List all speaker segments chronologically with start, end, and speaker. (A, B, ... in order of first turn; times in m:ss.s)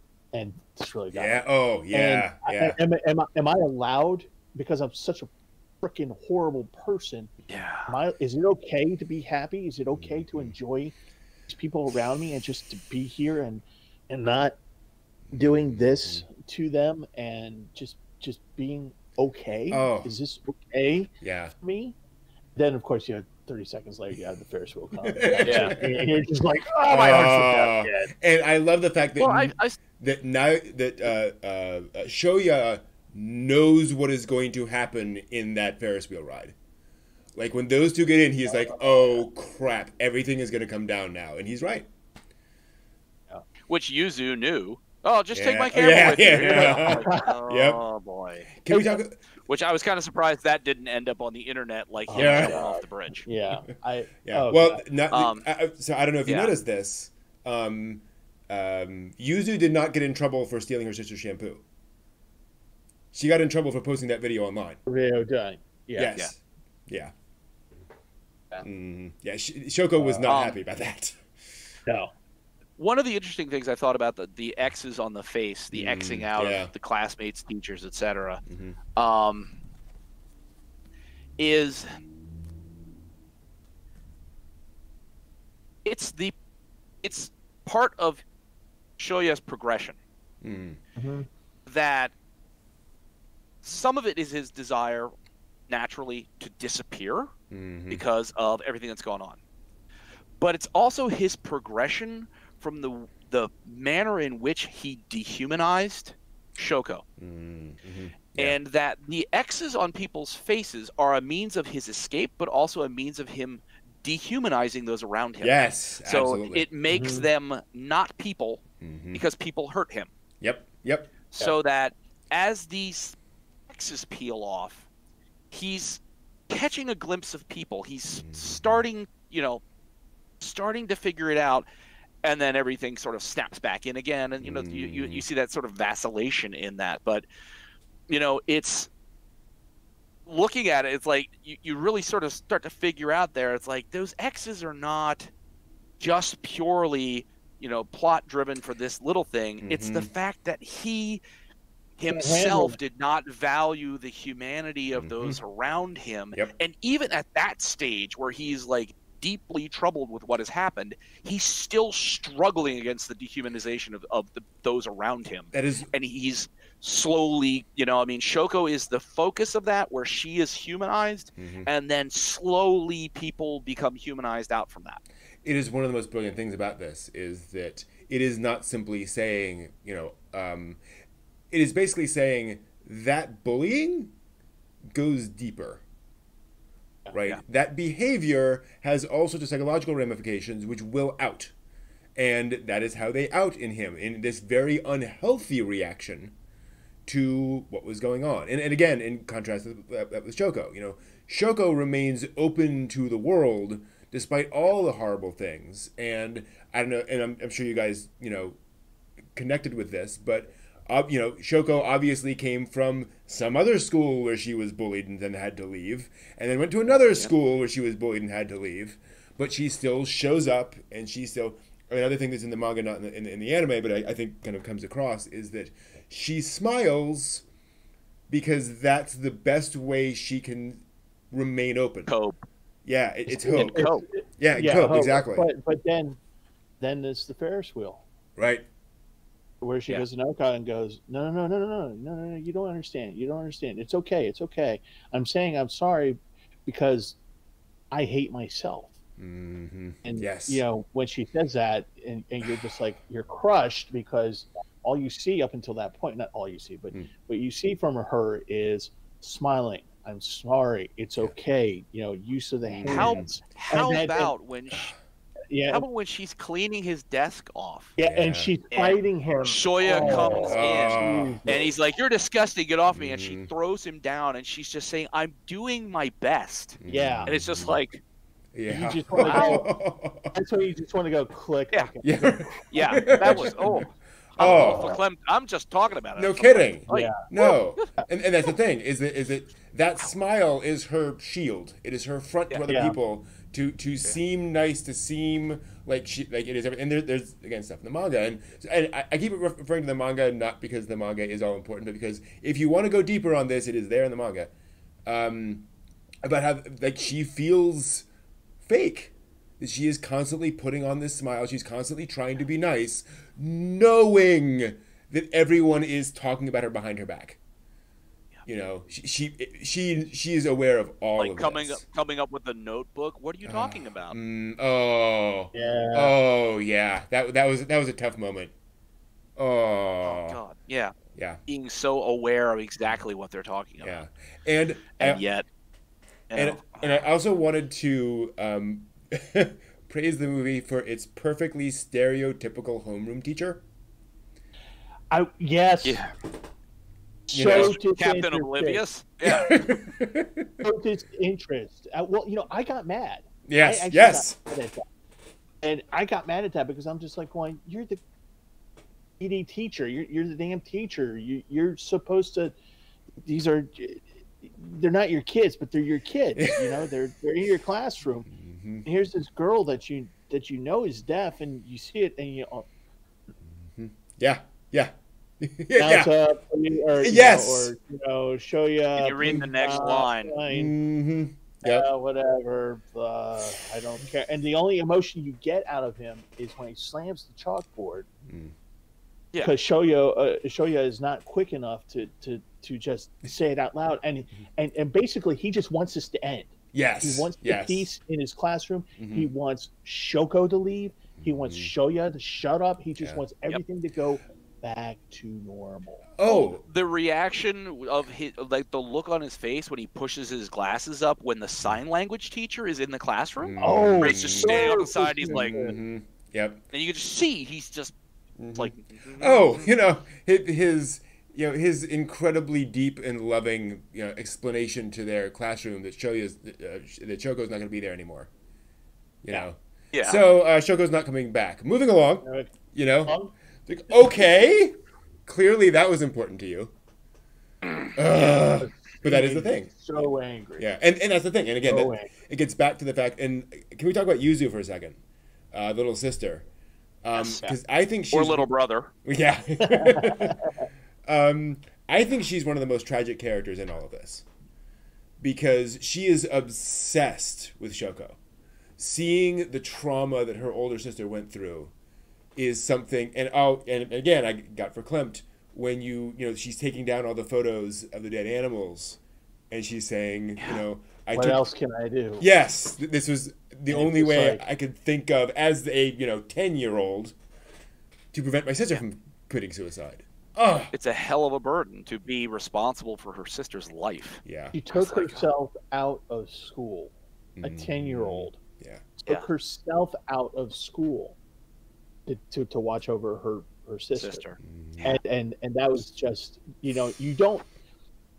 0:00.3-0:05.3 A
0:01.1-0:02.8 B
0:05.8-0:07.3 A
0:07.5-0:08.0 C
0:07.9-0:10.9 A
0:11.5-0:14.6 A
0:15.3-0:16.2 B
0:15.3-0:22.0 A
0:19.7-0:20.1 B
0:21.2-0:21.5 B
0:22.5-0:28.1 A
0:25.0-0:26.1 B
0:25.4-0:25.8 C
0:26.9-0:36.5 B
0:29.2-0:29.8 C
0:37.4-0:41.9 B
0:38.5-0:39.2 A
0:43.7-0:53.3 C
0:45.3-0:47.8 B
0:46.5-0:47.4 A
0:48.5-0:49.2 B
0:52.1-0:54.8 A
0:52.1-0:52.7 B
0:54.2-1:01.6 B
0:55.1-0:55.4 C
0:56.3-0:56.5 C
1:03.1-1:04.8 B
1:04.8-1:06.1 A
1:05.9-1:07.1 B
1:08.6-1:11.2 B
1:10.0-1:10.3 A
1:10.3-1:10.6 C
1:11.8-1:12.1 A
1:12.8-1:18.4 C
1:15.7-1:16.7 B
1:18.5-1:18.8 B
1:18.9-1:19.6 C
1:21.4-1:21.9 C
1:25.8-1:26.3 C
1:27.0-1:28.2 C
1:29.0-1:30.0 C
1:30.4-1:30.8 B
1:31.0-1:31.3 A
1:31.6-1:32.1 C
1:33.6-1:35.1 C
1:35.7-1:37.3 C
1:37.5-1:38.0 B
1:37.9-1:39.4 C
1:40.4-1:47.0 C
1:47.2-1:48.6 B
1:48.4-2:00.1 C
1:55.4-1:56.6 B
1:56.9-1:57.3 A
1:58.8-1:59.2 B
2:00.4-2:01.1 B
2:01.3-2:03.2 C
2:03.7-2:04.9 C
2:05.5-2:09.6 C
2:08.2-2:08.7 B
2:10.4-2:11.7 C
2:12.2-2:17.2 C
2:14.4-2:15.2 B
2:18.1-2:18.9 C
2:20.2-2:25.3 C
2:26.0-2:31.2 C
2:29.6-2:30.1 B
2:32.0-2:55.0 C
2:32.1-2:32.8 A
2:35.0-2:35.4 B
2:45.5-2:45.9 B
2:51.4-2:51.7 B
2:55.4-3:00.8 B
3:01.5-3:04.1 B
3:04.9-3:05.8 B
3:07.1-3:11.5 B
3:12.2-3:16.3 B
3:17.1-3:28.6 B
3:29.3-3:47.4 B
3:48.3-3:52.1 B
3:52.1-3:52.4 C
3:52.8-3:55.5 B
3:53.4-3:54.0 C
3:53.4-3:56.2 A
3:56.8-3:58.0 A
3:58.4-3:58.7 B
3:59.6-4:07.2 A
4:07.9-4:08.9 A
4:09.2-4:10.6 B
4:10.0-4:24.3 A
4:22.7-4:23.3 B
4:22.8-4:24.9 C
4:25.5-4:25.8 A
4:25.7-4:27.9 C
4:28.0-4:31.6 A
4:28.0-4:28.5 B
4:28.7-4:38.0 C
4:30.0-4:31.4 B
4:32.9-4:33.5 B
4:36.8-4:37.8 B
4:36.9-4:37.3 A
4:38.5-4:40.3 B
4:38.7-4:39.7 A
4:39.2-4:39.6 C
4:40.3-4:43.5 A
4:42.0-4:44.9 B
4:42.7-4:47.9 C
4:44.4-4:45.0 A
4:46.2-5:04.5 B
4:46.9-4:47.2 A
4:52.7-4:53.0 A
5:05.0-5:05.7 B
5:06.2-5:08.0 B
5:08.6-5:17.4 B
5:18.4-5:21.8 B
5:21.2-5:24.2 C
5:23.5-5:28.5 B
5:25.5-5:26.1 A
5:29.4-5:30.4 B
5:30.0-5:31.0 C
5:31.1-5:31.4 B
5:31.5-5:34.0 C
5:33.8-5:35.2 B
5:35.0-5:35.4 C
5:36.3-5:37.1 C
5:36.3-5:43.6 B
5:45.1-5:46.0 A
5:45.8-5:46.1 C
5:47.3-5:48.8 A
5:47.3-5:47.8 B
5:47.4-5:49.6 C
5:49.2-5:50.6 B
5:50.6-5:54.8 A
5:53.5-5:54.4 B
5:55.6-5:58.0 A
5:59.2-6:02.5 A
6:03.2-6:08.3 A
6:06.4-6:06.9 B
6:08.3-6:08.8 B
6:08.8-6:12.6 A
6:13.7-6:16.1 B
6:15.8-6:20.7 A
6:17.0-6:17.7 B
6:19.0-6:20.4 C
6:20.5-6:21.9 B
6:21.6-6:28.1 A
6:28.3-6:28.5 B
6:29.4-6:46.0 A
6:36.7-6:37.9 B
6:39.0-6:39.3 B
6:41.2-6:41.7 B
6:46.2-6:46.6 B
6:46.2-6:55.7 C
6:53.4-6:56.6 B
6:53.6-6:55.8 A
6:56.7-6:57.9 C
6:58.4-7:08.3 B
6:58.6-6:59.7 C
7:09.2-7:16.7 B
7:09.9-7:10.2 C
7:12.2-7:12.5 A
7:17.9-7:19.7 B
7:18.1-7:20.6 A
7:20.6-7:25.0 B
7:21.7-7:22.1 A
7:25.5-7:26.4 B
7:27.0-7:28.5 B
7:27.2-7:27.5 C
7:28.1-7:28.9 C
7:29.0-7:30.5 B
7:29.6-7:30.6 A
7:31.0-7:34.2 B
7:35.2-7:38.2 B
7:38.8-7:41.7 B
7:42.4-7:49.0 B
7:49.5-7:51.4 B
7:51.1-7:52.2 A
7:52.2-7:57.1 B
7:53.7-7:54.4 A
7:58.1-8:00.7 B
8:00.7-8:05.2 C
8:04.2-8:04.5 B
8:04.5-8:08.4 A
8:07.4-8:08.8 B
8:09.0-8:11.2 A
8:12.0-8:14.2 A
8:13.9-8:15.0 C
8:14.4-8:14.8 B
8:14.8-8:17.5 A